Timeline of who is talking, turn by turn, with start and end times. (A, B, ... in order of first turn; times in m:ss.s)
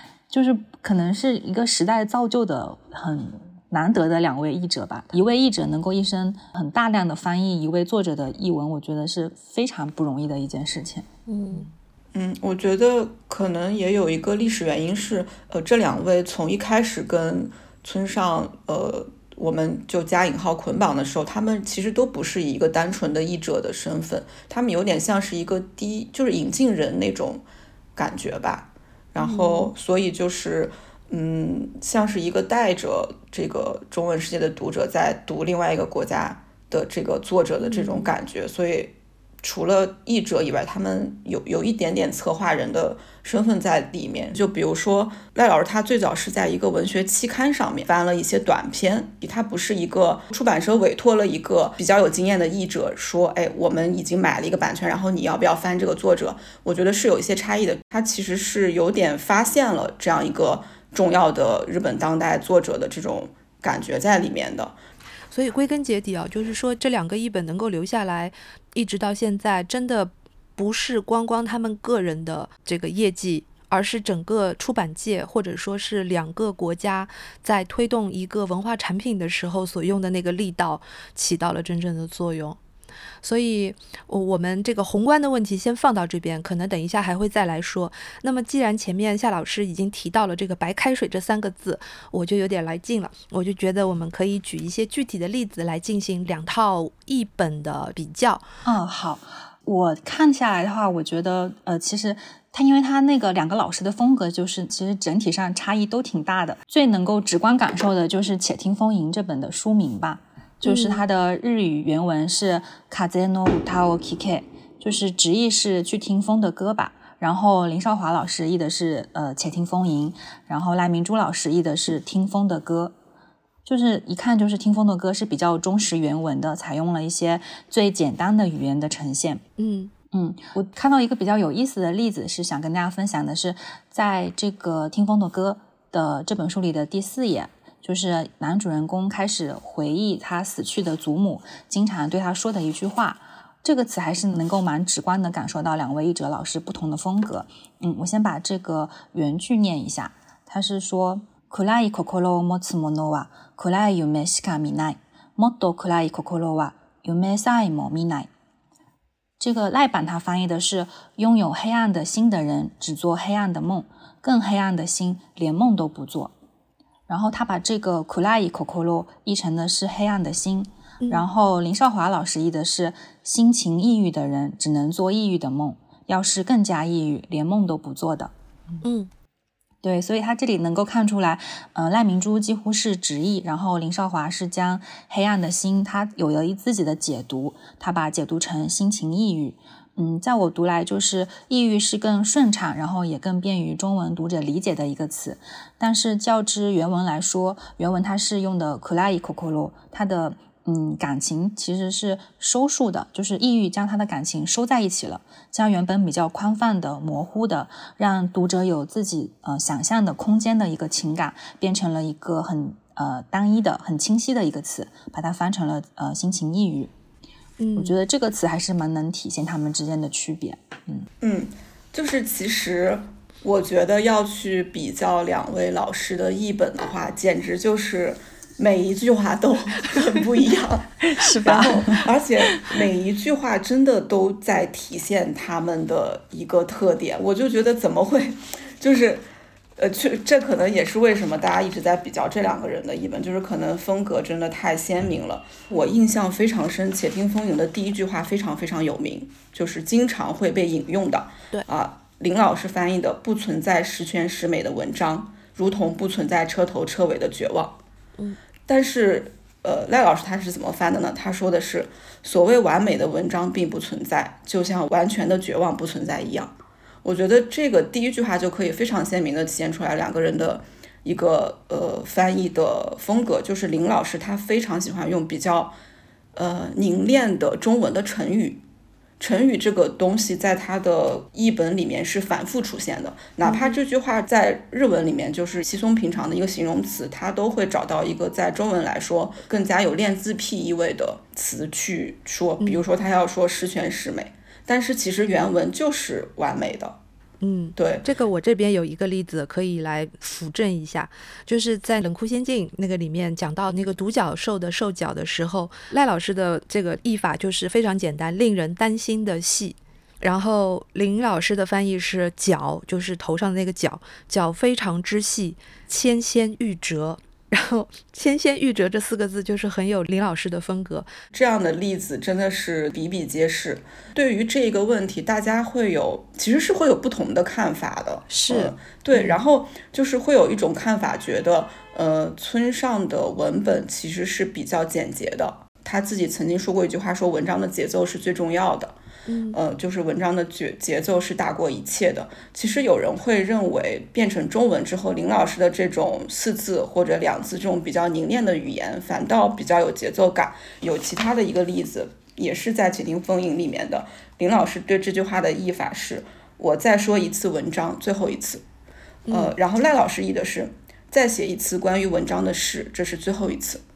0:00.3-0:11.1 A
0:11.3-0:11.7 B
0:12.1-0:27.4 C
0:28.0-1:04.8 C
0:29.2-0:29.7 B
0:37.6-0:38.1 B
1:05.3-1:22.6 B
1:23.2-1:38.5 B
1:38.6-2:02.9 A
1:50.6-1:51.0 B
2:03.7-2:09.4 A
2:09.6-2:09.9 B
2:10.1-2:38.3 A
2:39.4-2:46.3 A
2:47.1-2:58.3 A
2:51.0-2:51.3 B
2:58.8-2:59.1 B
2:59.8-3:36.9 A
3:37.6-3:38.0 B
3:37.8-3:41.1 A
3:41.2-4:17.8 C
3:51.1-3:52.0 A
4:18.7-4:35.8 C
4:36.4-4:38.6 C
4:39.2-4:57.0 C
4:43.4-4:43.8 B
4:57.4-5:21.1 B
4:57.8-4:58.1 C
5:21.3-5:39.0 C
5:28.3-5:29.4 B
5:39.3-5:39.6 B
5:39.5-5:58.6 C
5:59.3-5:59.5 B
5:59.3-6:03.8 C